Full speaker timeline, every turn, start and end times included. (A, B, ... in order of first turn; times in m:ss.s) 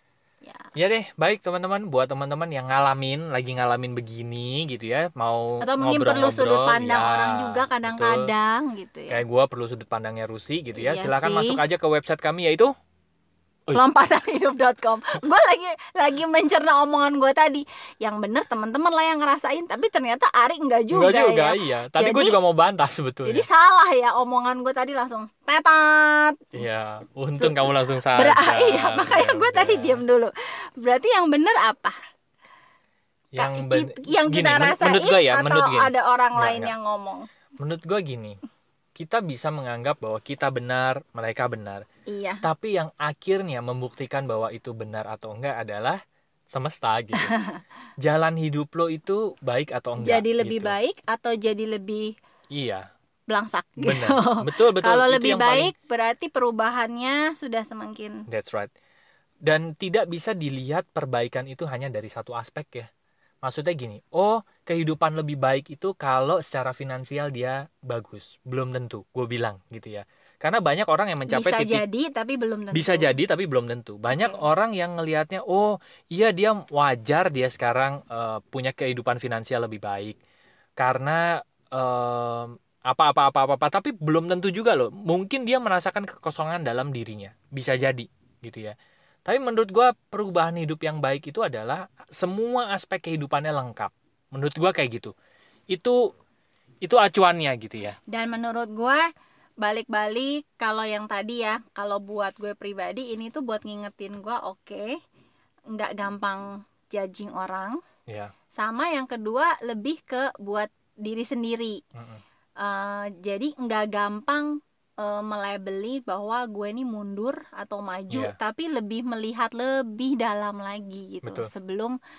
0:00.4-0:00.7 A
0:00.8-0:08.2 B
0:05.6-0:09.2 A
0:09.1-0:12.7 B
0:10.7-0:11.6 A
0:13.7-0:22.4 A
0:20.9-0:23.4 B
0:23.2-0:26.5 A
0:26.5-0:30.0 B
0:27.3-0:32.0 A
0:33.3-0:36.7 B
0:33.4-0:37.2 A
0:37.6-0:38.4 B
0:39.0-0:41.8 B
0:42.1-0:42.4 A
0:42.4-0:46.0 B
0:46.5-0:47.3 B
0:47.2-0:47.6 A
0:48.0-0:50.7 B
0:50.0-0:52.1 A
0:52.5-0:52.8 B
0:53.3-0:58.2 A
0:53.8-0:55.7 B
0:58.3-0:58.7 B
0:59.4-1:02.9 B
1:03.4-1:11.8 B
1:11.3-1:13.2 A
1:12.7-1:20.2 B
1:14.1-1:14.4 A
1:20.8-1:35.1 B
1:35.7-1:36.0 B
1:36.8-1:38.0 B
1:38.1-1:39.0 A
1:39.6-1:44.9 A
1:45.7-1:47.8 A
1:48.6-1:51.8 A
1:52.0-1:52.2 B
1:52.6-1:54.5 A
1:55.0-2:02.0 A
1:58.1-1:58.4 B
2:01.2-2:01.5 B